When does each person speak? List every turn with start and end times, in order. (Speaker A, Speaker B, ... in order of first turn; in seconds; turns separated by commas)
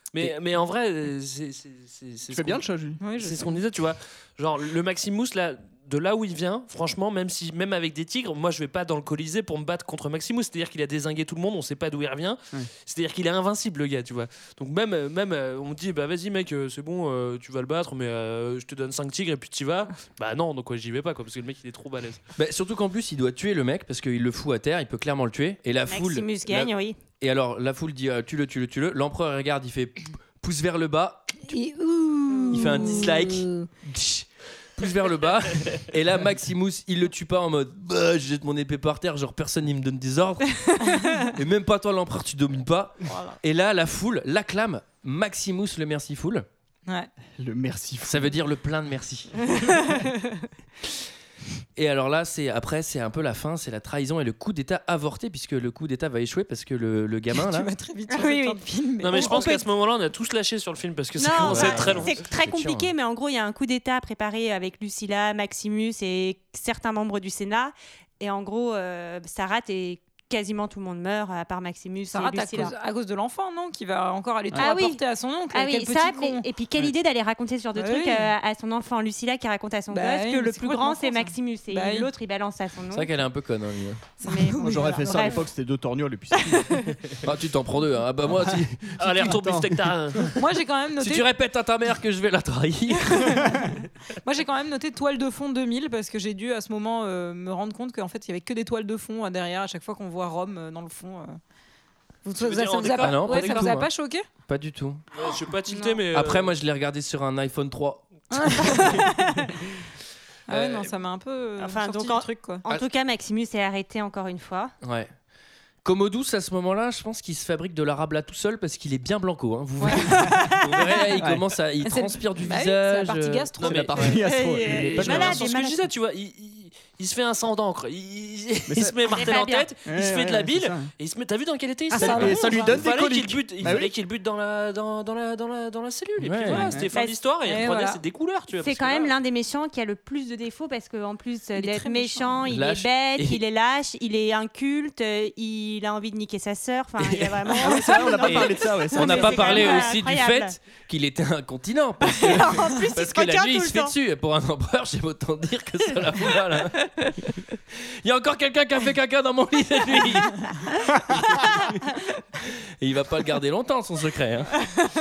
Speaker A: 0.1-2.6, Speaker B: 2.3-3.0, Speaker C: 3.0-3.5, Speaker A: 3.2-22.2, Speaker D: 22.4-31.6, Speaker E: 25.9-27.0, Speaker C: 31.5-33.7, Speaker E: 32.3-32.8, Speaker D: 32.5-46.5, Speaker C: 40.9-41.2, Speaker B: 47.4-48.3, Speaker D: 48.0-49.3, Speaker C: 49.7-50.1, Speaker D: 51.8-57.7, Speaker C: 57.3-59.6, Speaker E: 58.1-58.6, Speaker A: 59.0-62.2, Speaker E: 59.1-59.5, Speaker E: 61.2-72.7, Speaker B: 61.4-62.8, Speaker D: 61.5-62.9, Speaker C: 72.1-76.5, Speaker E: 74.5-83.1, Speaker C: 77.8-78.3, Speaker C: 79.9-82.1, Speaker D: 82.9-84.0, Speaker C: 84.2-85.4, Speaker E: 84.2-85.4, Speaker B: 84.6-86.9, Speaker D: 87.2-89.3, Speaker B: 88.3-90.3, Speaker A: 89.0-90.3, Speaker C: 90.4-91.2, Speaker D: 91.0-93.4, Speaker C: 93.1-101.4, Speaker C: 102.2-104.2, Speaker A: 102.4-103.7, Speaker D: 103.0-103.9, Speaker D: 104.5-105.0, Speaker A: 105.1-106.5, Speaker E: 105.7-106.0, Speaker D: 106.1-108.9, Speaker C: 108.3-109.4, Speaker C: 110.5-112.7, Speaker E: 111.6-114.7, Speaker D: 114.8-115.1, Speaker D: 115.8-123.9, Speaker C: 119.8-120.3, Speaker C: 121.8-123.9, Speaker A: 123.6-139.1, Speaker B: 123.6-125.4, Speaker E: 124.2-125.8, Speaker B: 128.7-129.2, Speaker E: 129.1-129.7, Speaker B: 129.8-130.9, Speaker B: 131.9-133.9, Speaker C: 131.9-132.8, Speaker D: 136.2-136.7, Speaker C: 137.4-138.0, Speaker E: 138.6-150.6, Speaker C: 141.6-142.5, Speaker D: 142.5-143.4, Speaker D: 147.0-157.4, Speaker B: 147.6-149.7, Speaker E: 152.1-153.9, Speaker D: 158.0-161.8, Speaker D: 162.4-164.6